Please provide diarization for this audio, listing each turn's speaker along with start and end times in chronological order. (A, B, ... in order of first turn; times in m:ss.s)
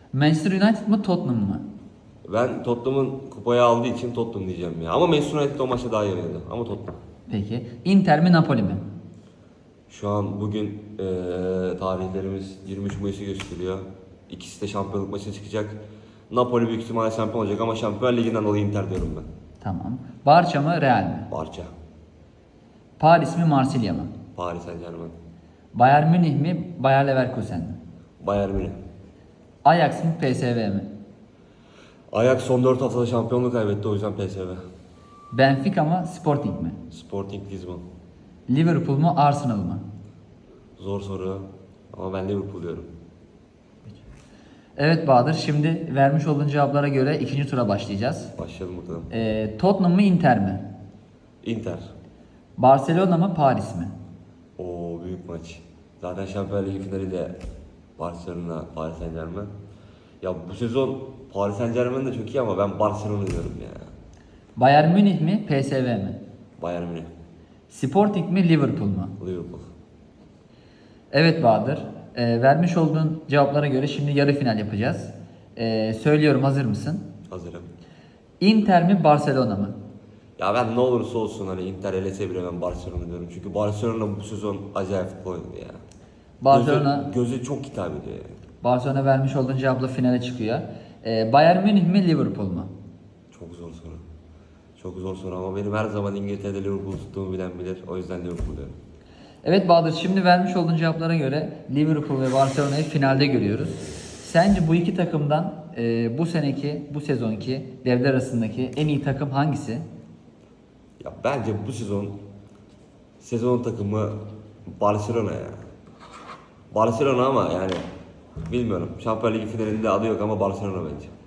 0:00.1-0:01.6 A
0:02.3-0:07.0 B
0:07.3-0:08.8 A
0:09.9-0:15.8 B
0:16.3-0:19.3 B
0:19.6-0:21.3 A
0:21.3-0:21.7 B
0:23.0-0:24.1 A
0:24.3-0:25.1 B
0:25.7-0:27.8 A
0:28.2-0:28.8 B
0:29.6-0:30.9 A
0:32.1-0:34.6 B
0:35.3-0:36.8 A
0:36.9-0:37.8 B
0:38.5-0:39.8 A
0:40.8-0:42.9 B
0:44.8-0:48.3 A
0:48.4-0:49.1 B
0:49.1-0:50.6 A
0:51.4-0:51.9 B
0:52.6-0:53.9 A
0:54.6-0:57.4 B
0:58.0-0:59.5 B
1:00.2-1:03.9 B
1:04.6-1:06.2 A
1:06.6-1:07.1 B
1:07.7-1:09.1 A
1:09.2-1:09.7 B
1:11.1-1:17.0 A
1:17.3-1:17.7 B
1:18.4-1:19.8 A
1:20.4-1:25.8 B
1:26.4-1:27.1 A
1:26.5-1:28.4 B
1:28.6-1:32.7 A
1:33.3-1:34.0 B
1:34.8-1:38.8 B
1:39.4-1:49.8 A
1:51.0-1:52.2 B
1:53.2-1:55.6 B
1:56.7-1:57.8 B
1:58.5-2:01.1 B